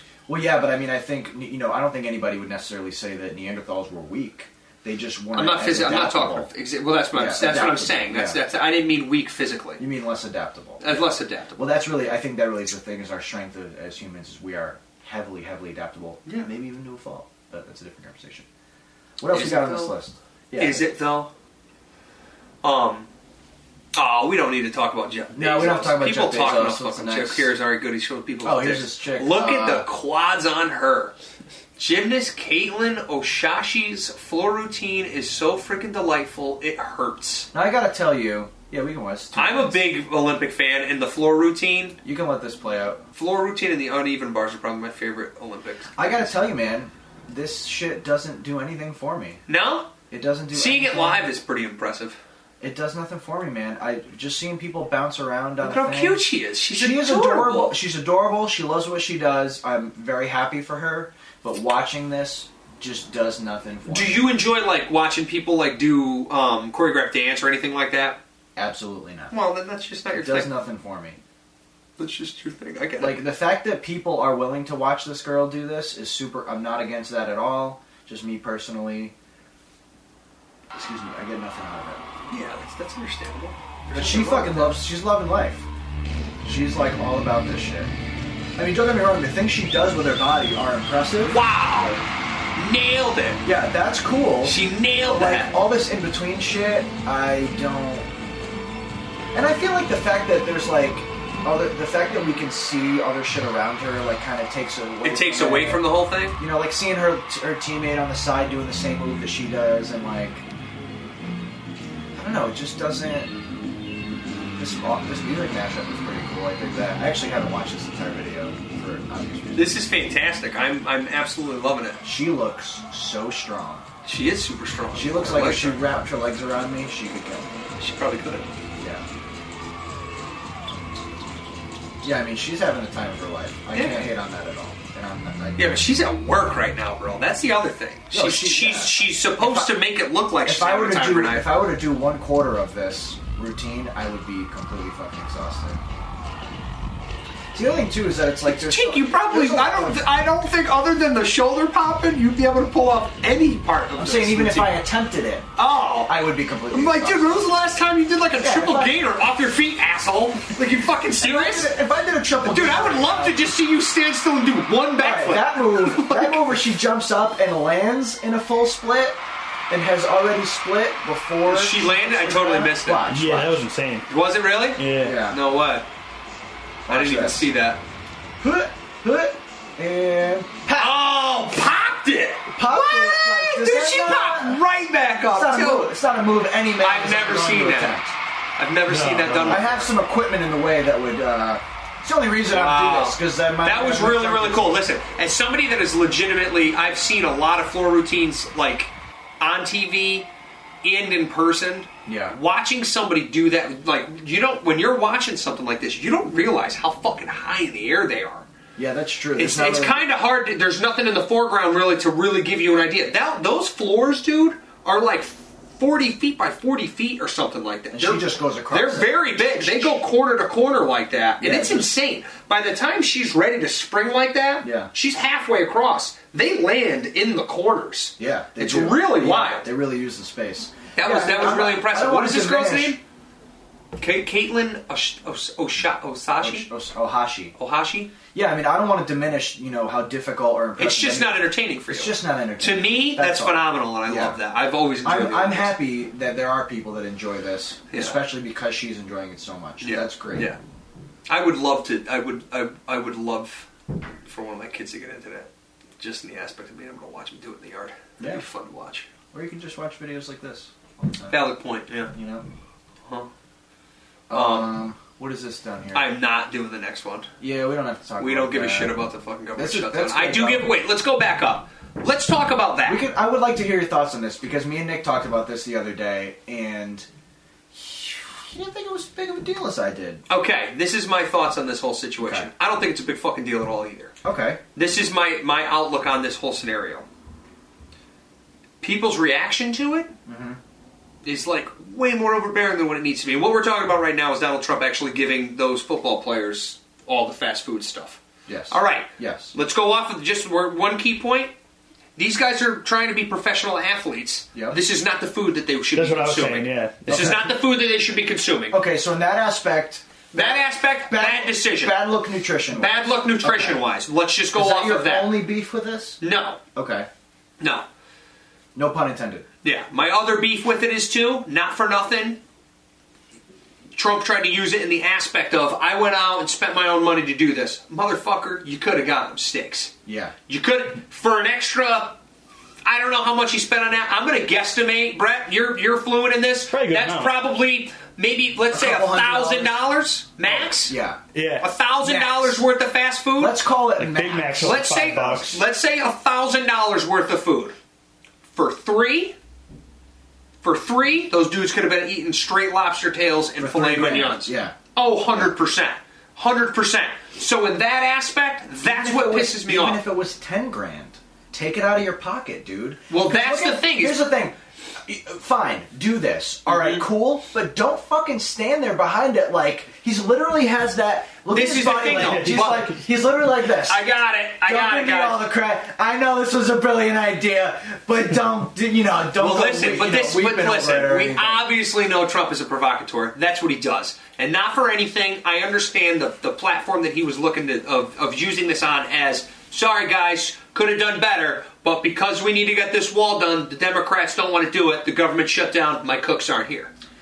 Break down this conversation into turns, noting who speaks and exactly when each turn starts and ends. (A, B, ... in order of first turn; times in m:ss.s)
0:00.3-0:06.5 A
0:05.3-0:09.8 B
0:07.1-0:08.4 A
0:09.8-0:18.4 A
0:10.8-0:11.6 B
0:19.2-0:20.9 A
0:19.3-0:20.0 B
0:20.6-0:21.3 B
0:22.6-0:23.1 B
0:23.9-0:31.1 B
0:25.3-0:27.5 A
0:28.4-0:29.9 A
0:31.8-0:37.5 B
0:37.5-0:39.8 A
0:39.3-0:42.0 B
0:42.0-0:43.0 A
0:43.1-0:46.3 B
0:45.9-0:49.4 A
0:49.5-0:49.9 B
0:50.1-0:51.3 A
0:50.5-0:52.2 B
0:52.6-1:04.2 A
0:55.6-0:57.8 B
1:03.9-1:08.2 B
1:08.6-1:09.3 A
1:09.3-1:10.5 B
1:10.1-1:11.2 A
1:12.0-1:13.2 B
1:13.0-1:19.1 A
1:20.7-1:22.0 A
1:22.3-1:24.8 B
1:23.9-1:25.7 A
1:26.4-1:27.9 A
1:28.6-1:31.4 A
1:31.2-1:32.0 B
1:32.6-1:33.4 B
1:33.4-1:38.2 A
1:34.4-1:35.5 B
1:39.3-1:50.4 A
1:45.0-1:46.4 B
1:52.1-1:53.3 A
1:54.6-1:59.8 A
1:59.5-2:02.0 B
2:02.0-2:03.8 A
2:04.0-2:05.9 B
2:04.9-2:07.5 A
2:07.8-2:08.5 B
2:08.8-2:09.0 A
2:12.0-2:15.9 A
2:13.7-2:14.1 B
2:15.6-2:21.5 B
2:18.1-2:19.8 A
2:20.4-2:25.8 A
2:27.5-2:30.0 A
2:28.5-2:34.8 B
2:33.9-2:35.5 A
2:35.6-2:36.2 B
2:36.0-2:37.4 A
2:36.7-2:41.7 B
2:38.4-2:39.0 A
2:41.2-2:43.4 A
2:42.4-2:46.6 B
2:45.0-2:53.6 A
2:51.4-2:53.0 B
2:53.1-2:54.0 C
2:54.1-2:55.8 B
2:54.8-2:55.2 C
2:55.0-2:55.4 A
2:56.8-2:57.4 A
2:56.9-2:57.8 B
2:58.4-3:01.0 A
3:00.8-3:05.9 B
3:02.5-3:04.6 A
3:05.3-3:08.1 A
3:06.8-3:08.0 B
3:08.6-3:09.9 B
3:08.9-3:09.7 C
3:09.4-3:14.8 A
3:12.5-3:20.3 B
3:20.8-3:28.5 B
3:22.0-3:22.4 A
3:28.8-3:30.0 A
3:29.3-3:49.7 B
3:37.9-3:40.0 A
3:41.4-3:41.9 A
3:44.6-3:44.9 A
3:48.2-3:53.0 A
3:50.9-3:53.0 B
3:54.0-3:56.7 B
3:56.4-3:57.5 A
3:57.6-3:58.1 B
3:58.3-4:04.4 A
4:00.8-4:05.7 B
4:05.0-4:10.5 A
4:07.9-4:08.2 B
4:09.8-4:10.6 B
4:11.3-4:13.7 B
4:14.2-4:19.1 B
4:19.3-4:21.4 A
4:21.3-4:22.1 B
4:22.1-4:22.4 A
4:24.3-4:26.1 A
4:24.3-4:24.8 B
4:25.9-4:27.3 B
4:27.4-4:29.0 A
4:28.2-4:33.0 B
4:29.6-4:30.7 A
4:32.8-4:37.1 A
4:37.7-4:40.2 A
4:40.3-4:44.1 B
4:42.2-4:42.5 A
4:44.2-4:44.6 A
4:44.7-4:47.0 B
4:48.8-4:50.1 B
4:50.2-4:50.6 A
4:51.2-5:01.5 B
4:58.5-4:59.5 A
5:02.2-5:08.8 B
5:05.9-5:07.5 C
5:07.1-5:07.5 A
5:08.7-5:13.8 A
5:10.3-5:12.0 B
5:12.7-5:15.4 B
5:14.5-5:16.2 A
5:16.2-5:16.6 B
5:16.7-5:17.1 A
5:17.6-5:17.8 B
5:18.7-5:19.4 A
5:19.6-5:22.4 B
5:23.9-5:29.9 B
5:30.0-5:30.3 A
5:30.5-5:32.2 B
5:32.8-5:41.0 B
5:36.7-5:37.3 C
5:38.7-5:39.8 A
5:40.5-5:41.2 A
5:41.3-5:41.7 C
5:41.6-5:43.6 B
5:42.0-5:42.6 A
5:43.4-5:45.5 A
5:44.0-5:45.6 C
5:44.6-5:47.7 B
5:48.5-5:49.4 B
5:50.6-6:00.0 B
5:53.6-5:54.8 A
5:58.8-6:14.0 A
6:03.1-6:04.3 B
6:06.7-6:07.0 B
6:11.5-6:12.9 B
6:12.1-6:12.9 C
6:13.8-6:15.4 B
6:14.6-6:21.6 A
6:19.4-6:36.9 B